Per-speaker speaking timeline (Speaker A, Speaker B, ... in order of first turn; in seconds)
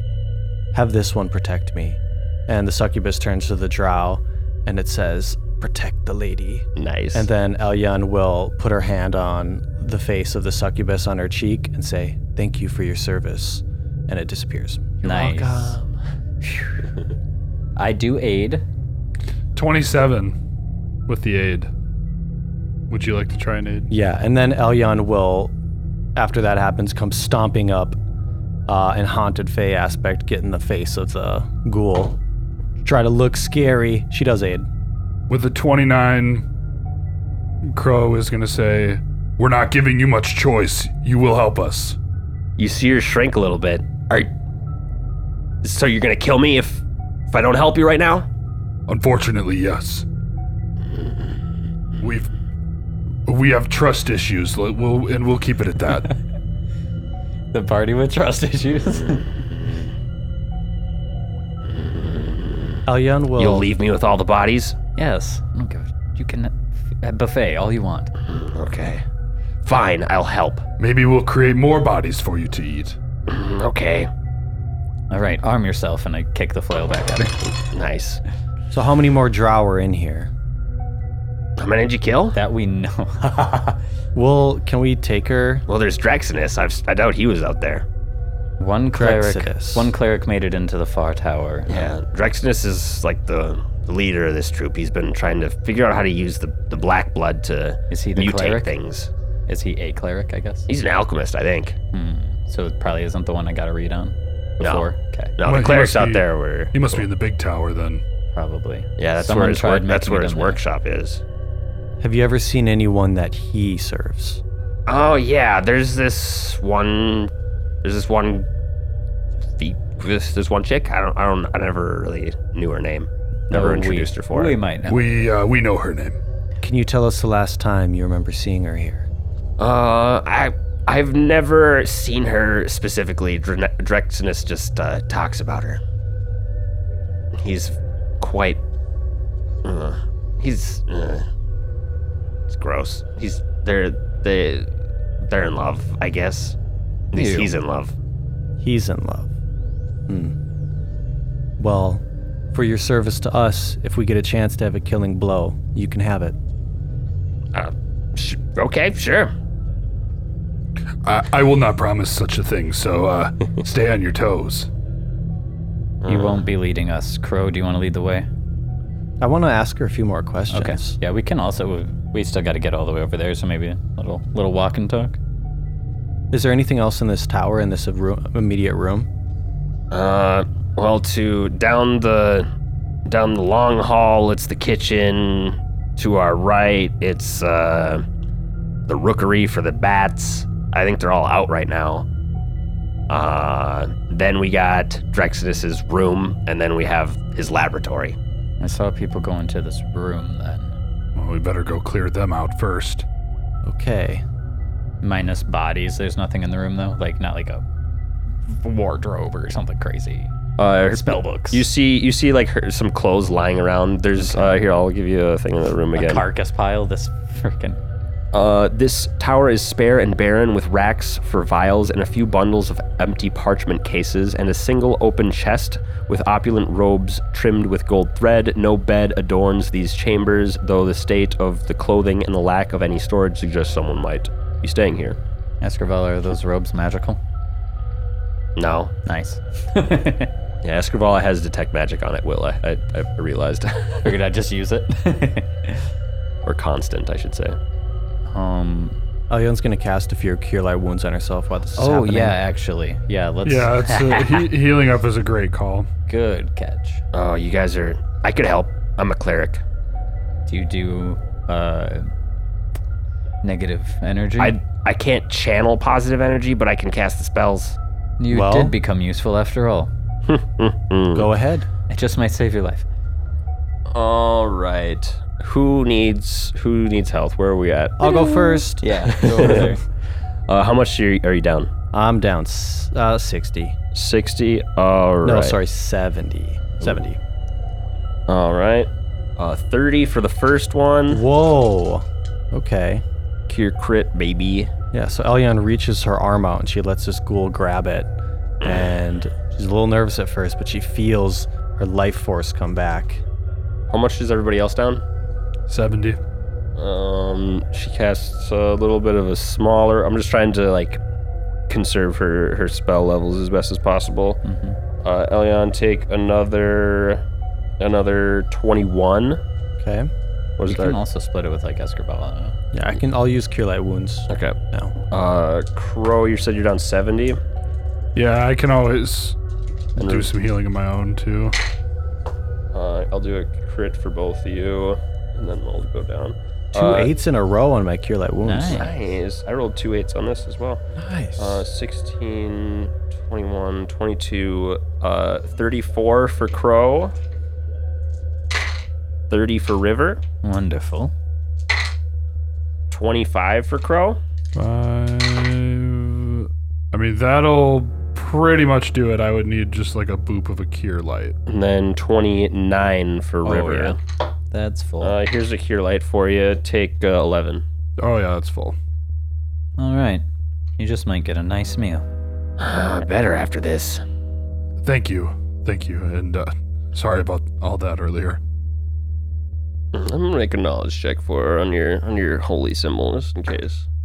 Speaker A: 0.7-15.0, 23.9-25.5, 26.1-28.0, 28.7-32.2, 32.8-34.7, 62.9-63.7, 78.7-80.3, 84.2-85.7, 88.9-89.9, 112.0-114.4, 126.6-129.1, 148.6-149.3, 150.1-150.3, 151.6-156.4, 169.2-171.0, 176.3-179.1, 203.6-204.2, 249.3-252.4, 268.3-268.8, 271.1-271.7, 278.0-279.6, 281.9-283.8, 285.2-287.2, 291.1-293.0, 294.9-303.2, 319.8-320.1, 322.7-324.9, 336.7-338.9, 341.0-341.6
Speaker B: 6.8-7.3, 15.0-15.9, 42.6-44.3, 45.6-48.3, 61.8-62.8, 63.4-64.8, 68.3-69.0, 69.7-70.6, 73.3-74.1, 77.7-78.2, 81.6-82.4, 85.7-87.9, 91.7-99.1, 100.7-101.8, 104.6-104.9, 105.4-107.0, 109.0-111.2, 114.9-117.3, 117.8-118.5, 119.6-124.6, 129.6-135.8, 137.4-138.6, 139.6-141.2, 142.5-144.7, 145.3-146.6, 147.1-147.9, 157.5-159.3, 166.0-166.4, 179.9-182.5, 183.1-188.0, 188.9-192.1, 193.1-198.2, 210.6-216.2, 218.3-235.2, 238.6-238.9, 240.6-244.2, 246.4-247.6, 257.1-259.6, 264.4-267.8, 270.3-271.3, 273.9-278.3, 279.1-279.7, 280.5-281.7, 283.9-285.6, 288.3-291.2, 293.5-294.7, 298.6-298.9, 303.9-305.0, 306.8-311.0, 311.7-314.4, 315.0-317.2, 317.8-319.4, 320.6-321.0, 324.3-324.6, 325.1-327.4, 330.0-330.3, 332.7-337.1, 338.7-340.8, 341.4-347.1, 349.3-350.2, 352.9-354.2, 361.5-364.0, 365.0-367.6, 372.6-374.0, 379.9-383.9
Speaker C: 15.0-15.8, 17.8-18.6, 57.5-59.3, 65.0-68.1, 75.1-77.5, 82.3-83.8, 88.6-91.9, 97.9-98.7, 99.5-100.7, 101.9-105.3, 108.3-110.6, 123.5-125.0, 147.1-147.5, 166.1-168.3, 170.5-175.2, 198.6-200.8, 205.0-207.6, 208.5-210.3, 210.9-211.7, 214.2-214.6, 216.0-217.8, 235.6-237.2, 239.1-240.3, 244.0-245.9, 248.3-249.0, 251.8-254.5, 256.1-257.0, 260.5-262.1, 263.4-264.6, 268.2-269.9, 271.9-272.9, 278.8-279.8, 314.4-314.8, 320.7-322.6, 338.4-338.9, 350.4-351.1, 363.4-364.0, 364.5-365.2, 369.8-370.2, 370.8-372.1
Speaker D: 19.6-20.4, 21.1-21.7, 22.9-23.9, 35.3-36.5, 37.6-42.0, 48.9-50.0, 52.0-52.3, 53.3-56.1, 70.8-73.0, 105.5-108.0, 124.9-126.2, 161.0-164.7, 201.2-203.1, 253.4-255.9, 305.7-306.2, 328.1-329.4, 330.0-331.6, 354.6-361.4, 368.0-368.8, 374.8-378.4